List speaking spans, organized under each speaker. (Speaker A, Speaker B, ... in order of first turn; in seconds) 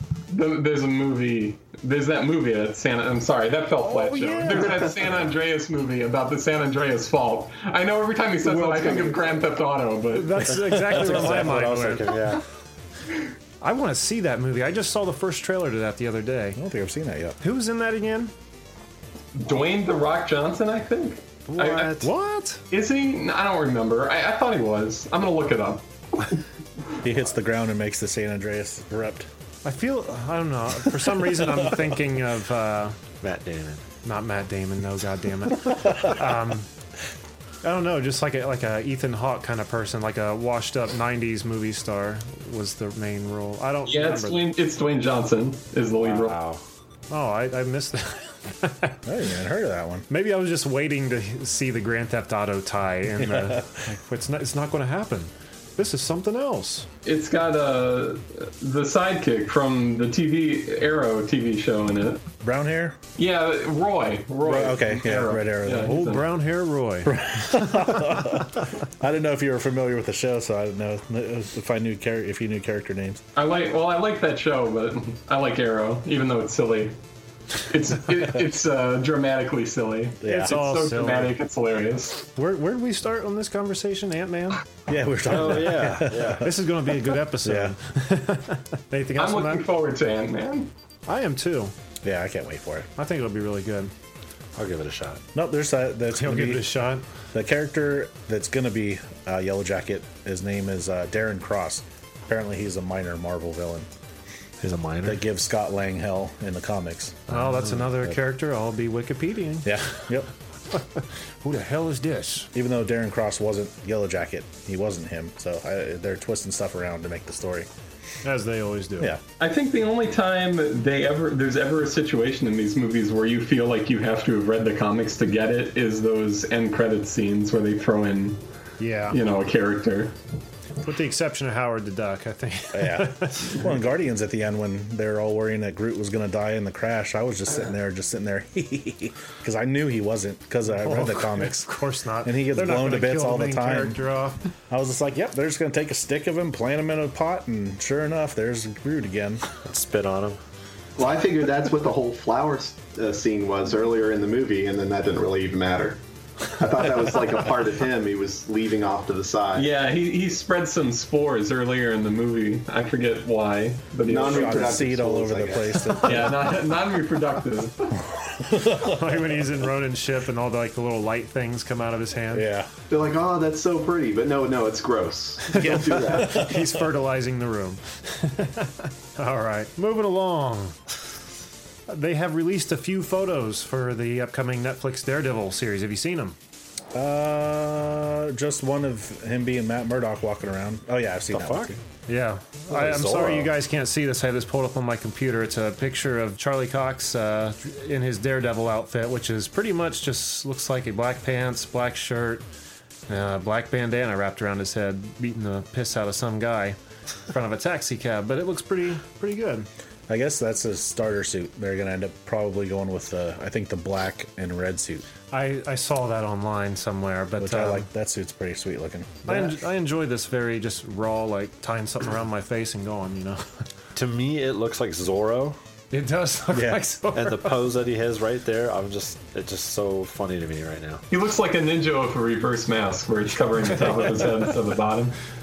Speaker A: 0.3-10.4, 19.4-21.9, 22.7-26.4, 43.9-46.4, 57.0-62.2, 63.2-66.3, 73.4-77.0, 77.6-82.2, 89.2-90.7, 119.4-128.4, 129.1-130.1, 159.6-164.8, 166.0-168.0, 231.1-235.2
Speaker B: 3.9-4.8, 10.1-12.2, 13.6-16.6, 17.4-18.3, 21.5-22.6, 29.6-33.0, 34.1-36.7, 37.6-44.5, 47.1-49.0, 50.1-56.9, 65.8-68.1, 80.3-81.3, 82.3-84.6, 86.4-89.7, 91.1-91.7, 93.0-93.9, 96.2-97.0, 107.3-109.7, 111.5-112.5, 118.2-119.1, 128.8-129.2, 130.8-133.6, 140.7-144.4, 168.7-172.5, 175.5-180.8, 181.9-186.4, 192.1-202.4, 203.1-206.8, 207.3-209.7, 215.3-217.8, 219.2-223.4, 225.9-227.6
Speaker C: 4.5-4.9, 8.4-9.4, 151.0-159.7, 164.1-165.9, 172.9-176.3
Speaker D: 10.5-11.4, 16.6-17.4, 27.0-29.3, 49.0-50.1, 53.2-53.7, 62.4-63.0, 64.4-66.0, 67.0-73.2, 80.2-80.6, 84.9-86.5, 87.4-87.8, 92.0-92.9, 95.3-96.8, 97.3-103.9, 105.0-107.3, 109.6-110.3, 112.5-117.7, 132.7-141.7, 142.2-144.0, 144.7-149.4, 164.2-166.5, 168.3-169.5, 172.3-172.7, 176.1-176.9, 186.9-191.7, 210.1-215.1, 217.4-219.5, 226.5-226.8
Speaker E: 10.8-12.4, 33.2-33.8, 46.0-46.6, 85.3-86.5, 94.6-95.2, 104.6-105.2, 107.4-107.9, 149.6-150.4, 191.3-191.8, 192.7-193.5, 224.0-225.6, 227.1-231.0